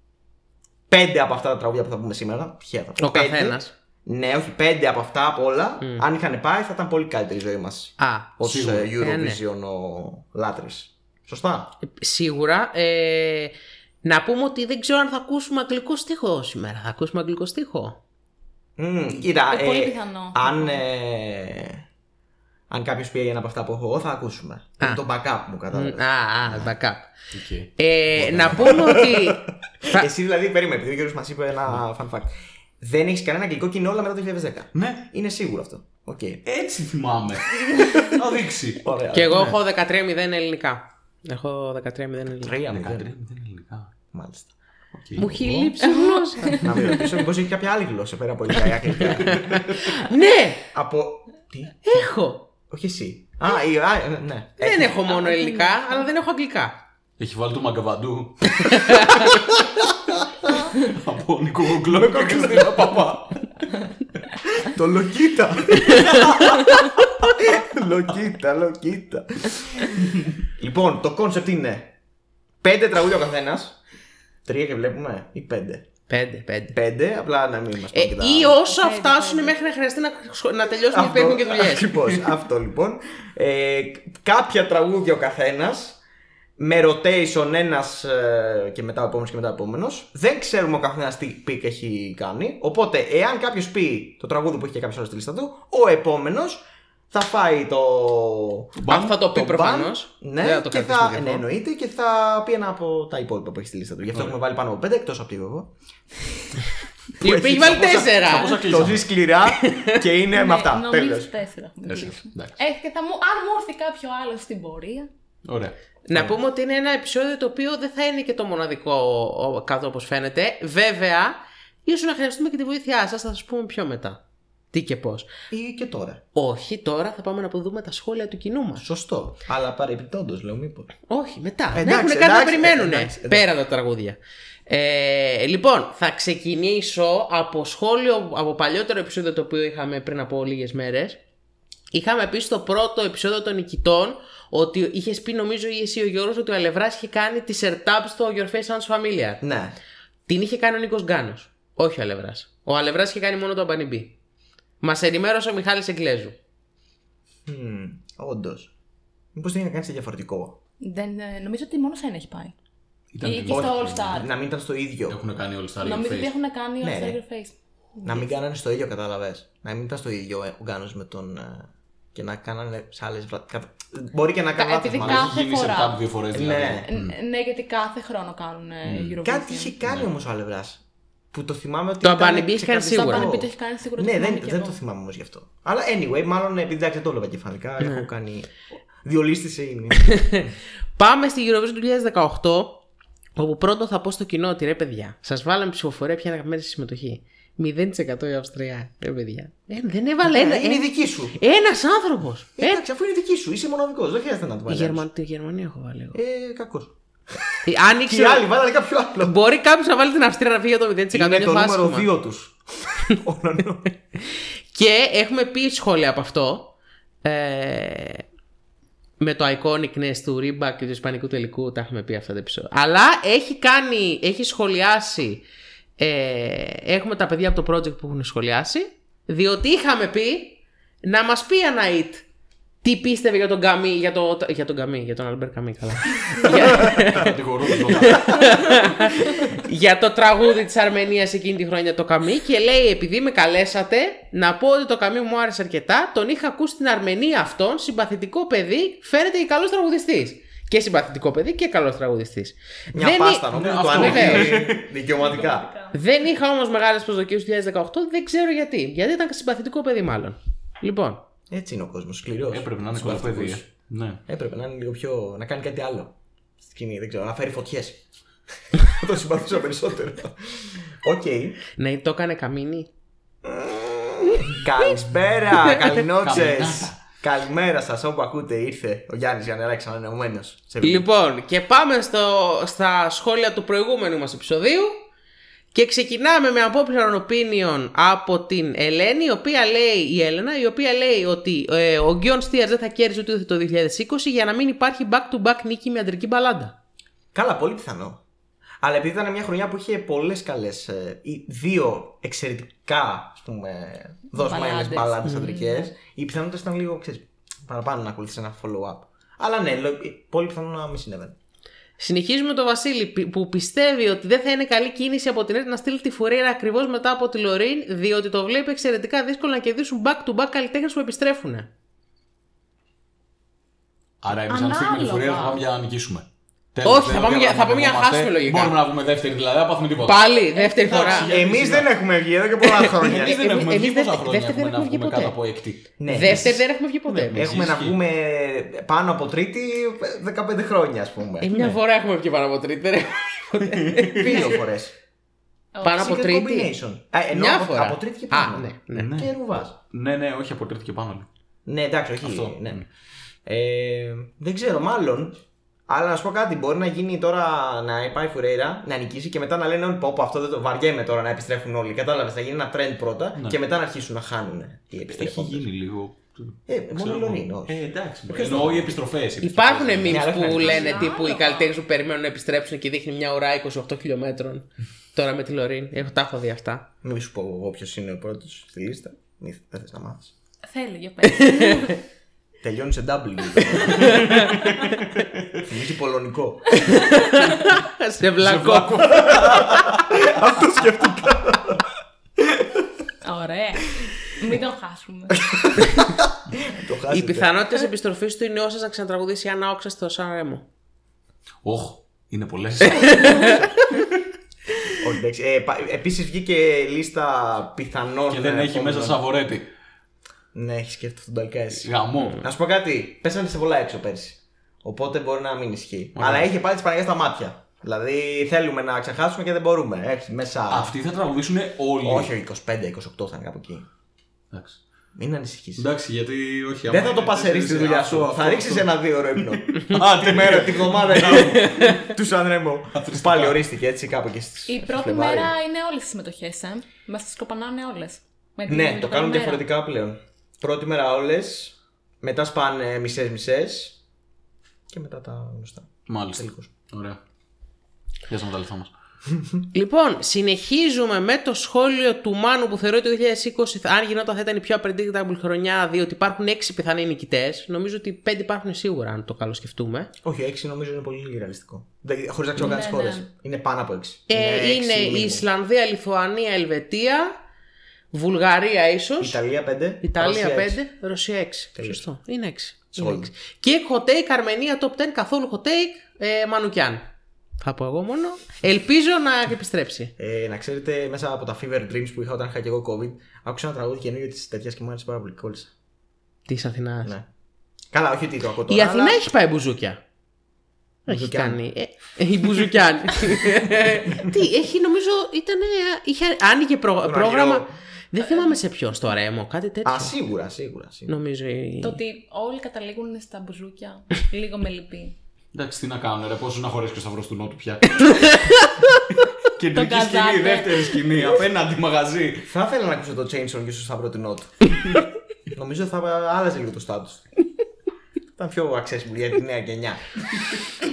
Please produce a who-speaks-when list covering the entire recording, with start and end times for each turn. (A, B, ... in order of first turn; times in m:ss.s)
0:00.9-0:11.7 A
0:03.0-0:03.7 B
0:08.0-0:08.4 B
0:08.4-0:08.9 C
0:09.0-0:09.4 B
0:11.8-0:18.0 B
0:18.8-0:21.8 A
0:19.1-0:20.8 D
0:22.7-0:26.7 A
0:25.7-0:27.1 B
0:27.3-0:27.7 C
0:27.8-0:30.1 B
0:28.2-0:29.3 A
0:28.3-0:28.7 C
0:29.9-0:36.4 A
0:34.7-0:35.1 C
0:36.4-0:39.5 C
0:38.8-0:39.5 A
0:39.1-0:42.5 B
0:42.3-0:43.1 A
0:42.7-0:43.9 C
0:44.1-0:44.5 A
0:44.9-0:45.3 C
0:45.1-0:45.9 A
0:45.2-0:46.9 B
0:46.4-0:49.6 A
0:49.3-0:50.6 B
0:50.7-0:52.0 A
0:51.8-0:52.5 B
0:52.7-0:55.1 A
0:54.6-0:56.7 B
0:55.3-0:55.9 D
0:57.2-0:59.4 C
0:58.6-0:59.3 B
1:00.7-1:03.4 C
1:01.8-1:03.2 A
1:04.4-1:06.6 A
1:06.1-1:06.6 C
1:07.2-1:11.9 A
1:12.6-1:13.8 A
1:14.4-1:15.9 A
1:16.1-1:16.8 B
1:16.7-1:18.7 A
1:17.9-1:22.0 B
1:18.6-1:19.5 D
1:20.9-1:26.0 A
1:26.6-1:46.5 A
1:38.8-1:39.1 C
1:38.8-1:41.4 B
1:47.2-1:51.3 A
1:47.2-1:48.5 B
1:48.3-1:49.1 C
1:49.5-1:50.0 B
1:50.3-1:55.1 D
1:51.8-1:52.6 C
1:55.4-1:55.7 C
1:56.0-2:04.2 B
1:56.1-1:56.4 A
2:04.7-2:05.3 B
2:05.5-2:06.2 A
2:06.3-2:08.8 B
2:08.8-2:10.9 A
2:11.1-2:21.2 B
2:11.7-2:13.5 A
2:21.9-2:29.4 B
2:29.4-2:29.8 A
2:30.3-2:34.1 B
2:34.8-2:36.3 B
2:37.4-2:38.7 A
2:39.3-2:40.6 A
2:40.8-2:42.5 D
2:43.1-2:44.3 C
2:43.2-2:44.3 D
2:43.5-2:45.2 A
2:45.1-2:46.3 C
2:45.8-2:48.3 D
2:46.8-2:47.2 A
2:48.0-2:55.4 A
2:54.6-2:56.0 D
2:54.9-2:57.2 C
2:56.3-2:56.9 A
2:56.9-2:59.8 D
2:58.8-2:59.1 C
2:59.2-3:10.4 A
3:02.0-3:03.3 B
3:02.9-3:04.8 D
3:07.8-3:08.0 B
3:10.1-3:10.4 B
3:11.0-3:12.8 B
3:13.4-3:22.8 B
3:20.2-3:21.4 A
3:22.6-3:25.1 A
3:24.7-3:26.2 B
3:26.1-3:29.4 A
3:27.6-3:28.5 B
3:29.2-3:32.1 B
3:31.1-3:33.9 A
3:34.1-3:38.2 B
3:39.2-3:45.4 B
3:46.0-3:52.2 B
3:52.8-4:14.5 B
3:56.7-3:58.7 C
4:12.9-4:15.7 A
4:13.5-4:14.9 C
4:14.9-4:16.0 D
4:15.9-4:21.2 B
4:21.5-4:23.6 A
4:22.5-4:24.2 C
4:24.3-4:28.0 A
4:28.8-4:31.6 A
4:31.8-4:32.9 B
4:33.4-4:41.0 A
4:36.2-4:37.0 C
4:40.8-4:45.0 B
4:45.7-4:56.8 B
4:57.3-4:58.2 A
4:58.8-5:11.4 A
5:04.3-5:05.9 D
5:12.0-5:21.7 B
5:24.2-5:30.3 C
5:24.5-5:25.6 D
5:26.8-5:28.8 B
5:30.0-5:31.3 B
5:30.3-5:31.3 D
5:30.8-5:31.9 C
5:31.2-5:33.4 A
5:32.8-5:35.4 B
5:32.9-5:38.0 C
5:36.0-5:36.6 A
5:36.1-5:37.5 B
5:37.3-5:41.7 A
5:41.4-5:44.4 B
5:43.7-5:44.2 C
5:44.2-5:44.9 A
5:44.2-5:44.6 D
5:45.7-5:46.3 D
5:45.8-5:46.7 B
5:45.9-5:49.8 A
5:47.3-5:49.1 B
5:48.9-5:49.4 C
5:49.9-5:51.3 C
5:51.6-5:52.8 A
5:52.2-5:52.9 C
5:53.4-6:05.7 A
6:05.1-6:10.6 C
6:06.7-6:09.0 A
6:09.4-6:16.9 B
6:10.0-6:11.0 A
6:10.5-6:11.7 D
6:17.0-6:20.3 A
6:20.6-6:22.0 D
6:21.3-6:21.6 B
6:22.6-6:24.3 A
6:24.0-6:25.6 C
6:24.0-6:24.3 B
6:25.6-6:26.9 A
6:27.0-6:29.6 B
6:28.4-6:30.4 C
6:29.1-6:31.9 A
6:32.5-6:32.8 A
6:33.2-6:35.6 D
6:35.4-6:37.5 A
6:37.1-6:40.6 B
6:41.6-6:43.9 C
6:43.0-6:43.5 B
6:45.0-6:49.2 A
6:48.3-6:49.7 C
6:50.5-7:00.9 A
6:51.8-6:52.4 C
6:56.1-6:56.5 C
7:00.7-7:02.3 C
7:02.0-7:03.9 A
7:04.5-7:04.8 C
7:05.1-7:05.9 A
7:05.8-7:12.1 C
7:06.9-7:15.5 A
7:12.9-7:13.6 C
7:14.7-7:19.6 D
7:18.7-7:24.0 A
7:24.9-7:26.7 A
7:26.1-7:27.2 C
7:28.3-7:28.9 C
7:29.7-7:40.1 B
7:40.2-7:45.4 A
7:42.6-7:43.3 D
7:44.3-7:47.3 B
7:48.1-7:49.4 B
7:49.2-7:50.8 A
7:50.0-7:57.0 B
7:51.8-7:52.0 A
7:52.9-7:53.3 A
7:57.6-8:00.1 B
8:00.2-8:05.7 A
8:06.5-8:07.1 B
8:07.9-8:09.2 A
8:08.7-8:10.0 B
8:11.1-8:11.6 A
8:11.1-8:20.1 B
8:17.0-8:17.7 A
8:18.3-8:18.5 D
8:19.8-8:21.2 A
8:21.1-8:22.0 B
8:21.8-8:25.2 D
8:25.5-8:28.1 C
8:28.1-8:28.7 B
8:29.5-8:32.5 C
8:29.7-8:30.9 D
8:32.4-8:34.8 A
8:35.5-8:37.3 A
8:38.4-8:40.2 A